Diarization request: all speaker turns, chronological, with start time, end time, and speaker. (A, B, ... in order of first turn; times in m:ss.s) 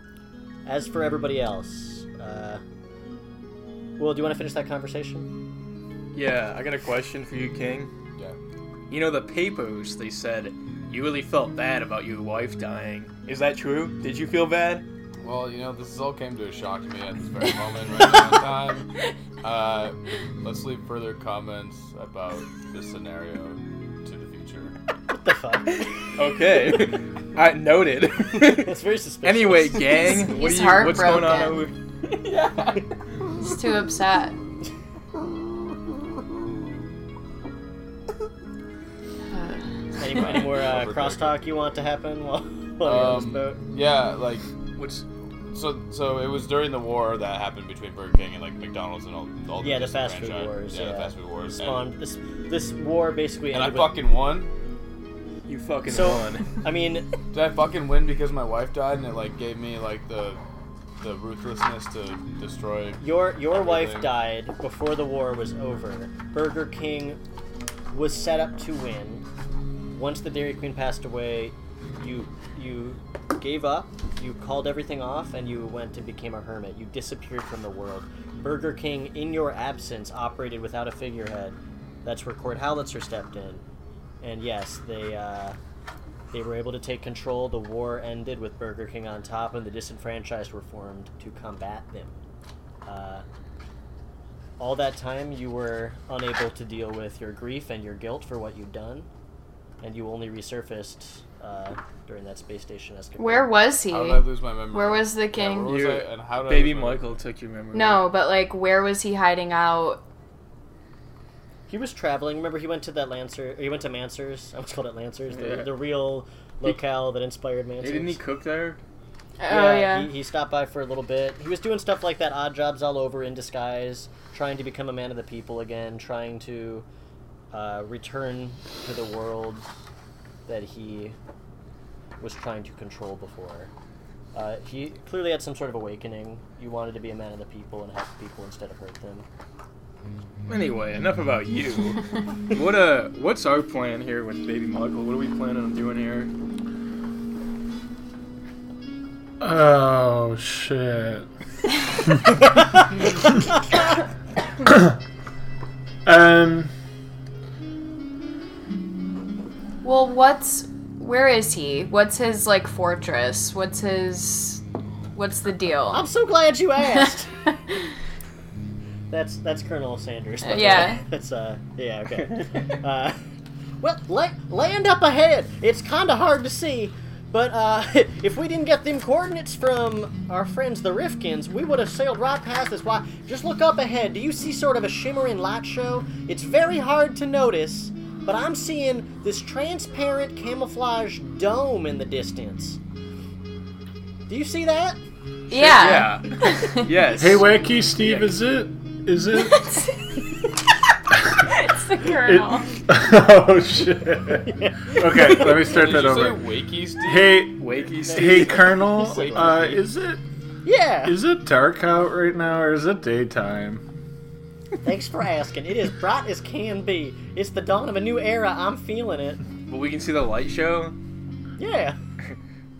0:00.6-0:02.6 A
0:04.0-0:05.3 A
0:06.1-0:07.9 B
0:08.9-0:14.8 B
0:15.2-0:18.9 C
0:19.4-0:24.7 C
0:25.1-0:25.9 A
0:26.2-0:31.7 B
0:28.4-0:29.9 A
0:29.8-0:31.6 D
0:32.2-0:32.8 C
0:33.4-0:34.4 D
0:39.3-0:39.6 D
0:40.0-0:43.6 A
0:40.1-0:41.4 C
0:42.8-0:44.4 C
0:44.8-0:45.0 B
0:45.5-0:51.9 C
0:49.6-0:54.0 A
0:53.5-0:54.5 C
0:55.4-0:56.5 B
0:55.9-0:57.0 A
0:57.3-1:00.4 C
1:01.0-1:04.1 C
1:03.0-1:07.2 A
1:07.9-1:09.2 A
1:09.9-1:23.6 A
1:24.2-1:25.6 A
1:26.3-1:32.2 A
1:32.8-1:33.2 A
1:34.6-1:39.1 A
1:39.8-1:43.6 A
1:43.2-1:45.8 D
1:43.9-1:47.1 C
1:45.7-1:48.0 B
1:47.7-1:50.0 D
1:51.7-1:58.2 A
1:55.3-1:55.7 B
1:57.8-1:58.8 B
1:59.4-2:00.1 D
1:59.5-2:06.8 A
2:07.5-2:09.7 A
2:10.5-2:11.2 A
2:12.2-2:13.7 A
2:14.3-2:19.2 A
2:20.5-2:26.3 B
2:29.4-2:31.3 E
2:32.1-2:32.4 E
2:34.6-2:35.0 E
2:36.0-2:36.7 E
2:39.8-2:44.6 D
2:45.1-2:46.1 D
2:45.9-2:47.3 A
2:49.1-2:53.2 A
2:50.4-2:51.0 D
2:53.8-3:12.8 A
3:14.3-3:15.0 A
3:15.5-3:16.9 D
3:15.6-3:18.4 B
3:17.1-3:19.8 E
3:19.4-3:20.0 D
3:21.2-3:21.4 E
3:21.4-3:22.7 D
3:22.1-3:26.5 E
3:24.4-3:25.7 A
3:25.4-3:27.5 C
3:27.0-3:30.2 E
3:27.6-3:28.6 B
3:28.0-3:29.8 A
3:29.0-3:29.8 C
3:30.6-3:31.2 A
3:31.0-3:33.8 E
3:34.8-3:39.4 A
3:39.7-3:40.9 B
3:41.6-3:42.0 A